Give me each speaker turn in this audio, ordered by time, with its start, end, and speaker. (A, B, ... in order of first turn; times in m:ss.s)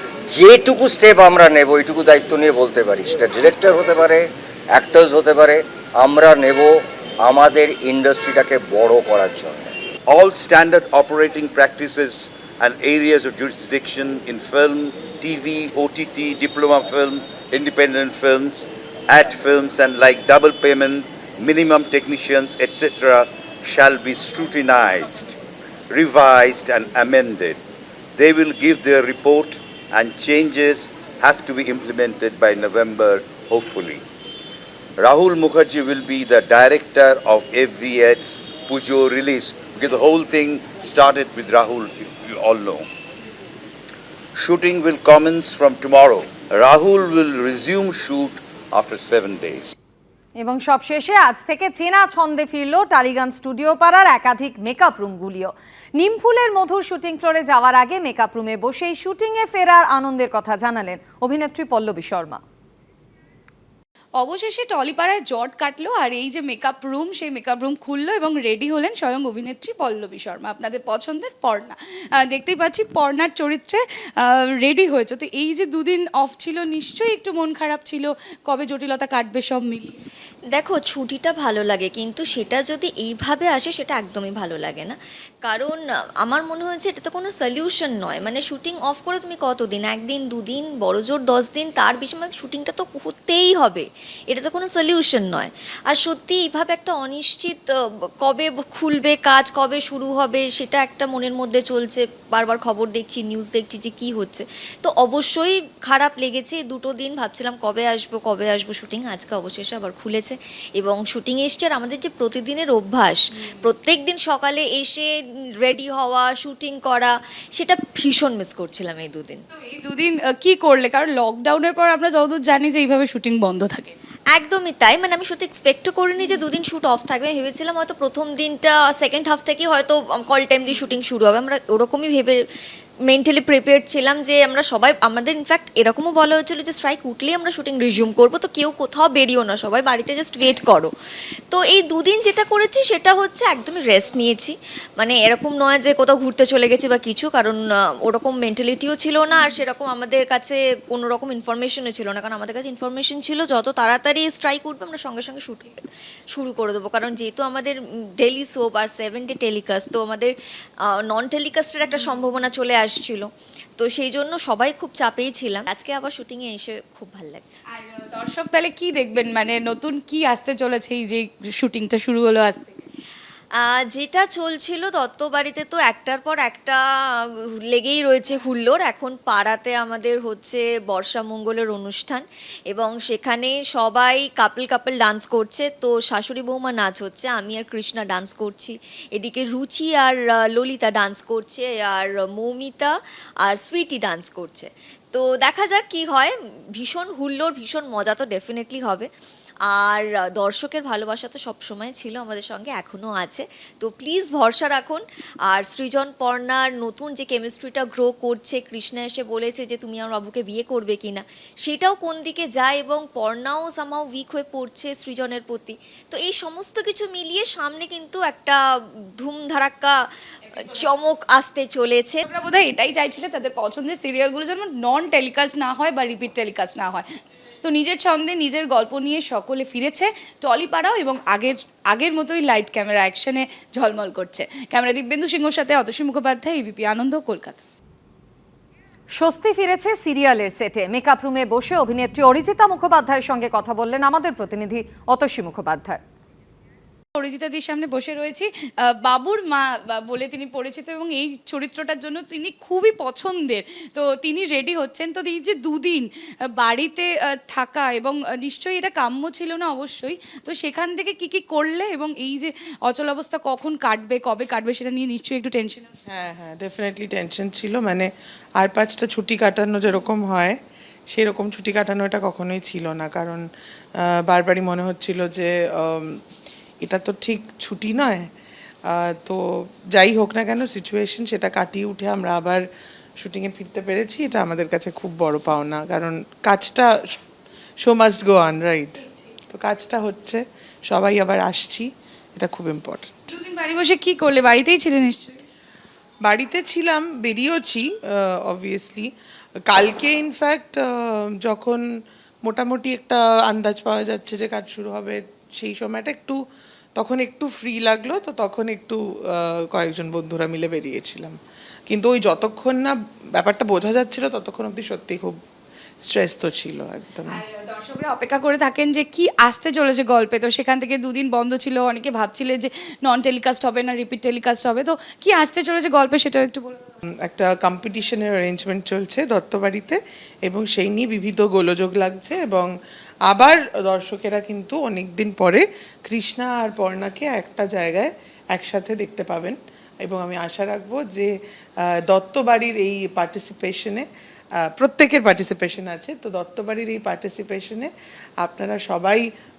0:00.3-0:09.6 A
0:10.1-0:25.3 B
0:25.9-0:27.6 B
0:28.2-0:34.0 B
0:35.0-0:42.9 B
0:44.4-0:49.7 B
0:50.4-1:02.4 C
1:04.2-1:19.9 D
1:20.5-1:59.4 E
1:59.7-2:03.9 D
2:04.3-2:12.4 E
2:13.1-2:20.9 E
2:21.5-2:35.8 E
2:36.3-2:47.6 E
2:47.8-2:52.8 D
2:53.6-3:19.1 E
3:19.7-3:38.6 E
3:39.2-3:42.2 E
3:42.3-3:47.0 D
3:47.6-3:57.6 D
3:59.2-4:06.0 C
4:07.2-4:08.5 D
4:09.0-4:16.1 D
4:16.6-4:25.9 D
4:26.1-4:30.5 F
4:31.1-4:33.4 F
4:34.3-4:36.1 F
4:36.8-4:38.2 F
4:38.9-4:39.4 F
4:40.0-4:42.6 F
4:43.2-4:47.2 F
4:47.8-4:49.0 F
4:49.5-4:53.1 F
4:53.3-4:55.4 D
4:56.2-4:59.1 F
4:59.7-5:01.8 F
5:02.4-5:06.4 F
5:07.0-5:11.4 F
5:11.9-5:15.4 F
5:16.0-5:17.4 F
5:17.3-5:26.8 D
5:27.3-5:32.7 F
5:33.3-5:41.3 F
5:42.1-5:44.0 F
5:44.8-5:47.9 F
5:48.4-5:49.2 F